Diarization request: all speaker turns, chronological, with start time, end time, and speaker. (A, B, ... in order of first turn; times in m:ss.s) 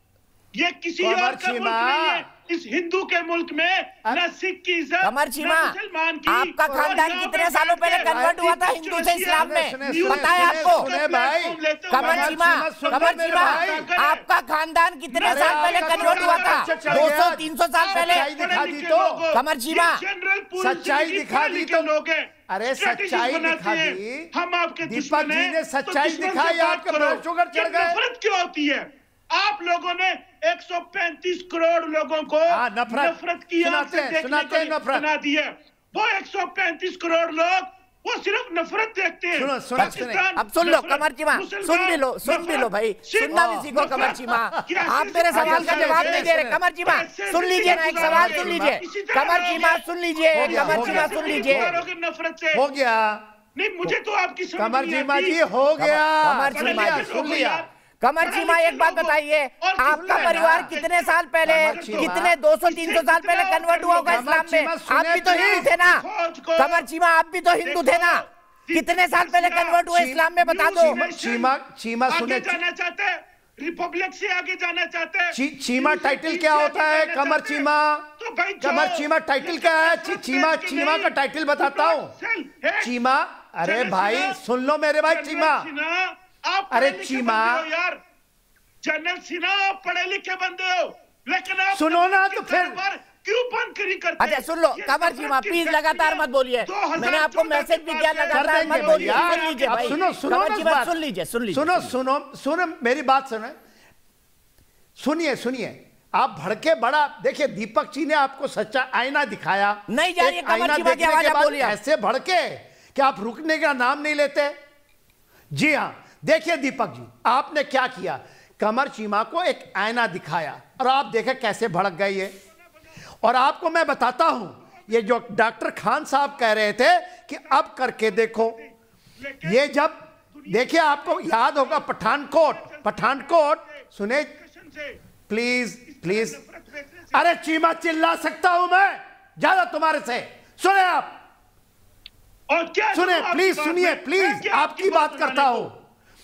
0:00.6-0:14.2 A
0:01.0-0:02.2 B
0:05.0-0:05.7 C
0:06.3-0:10.9 C
0:08.0-0:08.4 B
0:09.4-0:13.9 B
0:11.9-0:18.3 C
0:15.1-0:17.2 A
0:15.2-0:19.2 B
0:17.8-0:46.3 A
0:19.3-0:20.0 C
0:20.6-0:21.9 B
0:22.5-0:24.3 B
0:24.8-0:28.0 B
0:32.5-0:35.0 B
0:39.3-0:40.2 B
0:39.8-0:51.7 C
0:43.3-0:46.6 B
0:46.8-0:52.6 A
0:47.6-0:48.8 B
0:50.3-0:51.8 B
0:52.5-0:53.2 B
0:53.6-0:55.4 A
0:54.6-0:57.6 B
0:55.8-0:57.1 C
0:56.5-0:57.7 A
0:58.0-1:06.0 C
0:58.2-1:04.2 A
0:59.8-1:00.7 B
1:01.4-1:02.3 B
1:04.0-1:05.7 B
1:05.2-1:06.8 A
1:06.6-1:11.0 C
1:07.6-1:11.5 A
1:09.9-1:12.6 B
1:12.1-1:17.7 A
1:15.3-1:18.1 B
1:18.2-1:22.9 A
1:18.6-1:22.1 B
1:22.8-1:25.7 B
1:23.6-1:24.4 A
1:25.0-1:28.0 A
1:26.7-1:27.6 B
1:28.8-1:40.2 A
1:31.7-1:32.8 B
1:34.2-1:41.9 C
1:38.3-1:40.9 B
1:41.5-1:43.6 B
1:45.0-1:54.6 B
1:49.9-1:51.8 C
1:55.5-2:02.3 B
2:03.2-2:08.6 B
2:04.6-2:05.3 A
2:07.3-2:09.8 A
2:09.4-2:14.3 B
2:10.3-2:15.0 A
2:15.3-2:16.4 B
2:15.8-2:17.4 A
2:17.1-2:21.2 B
2:22.5-2:25.7 A
2:22.9-2:25.7 B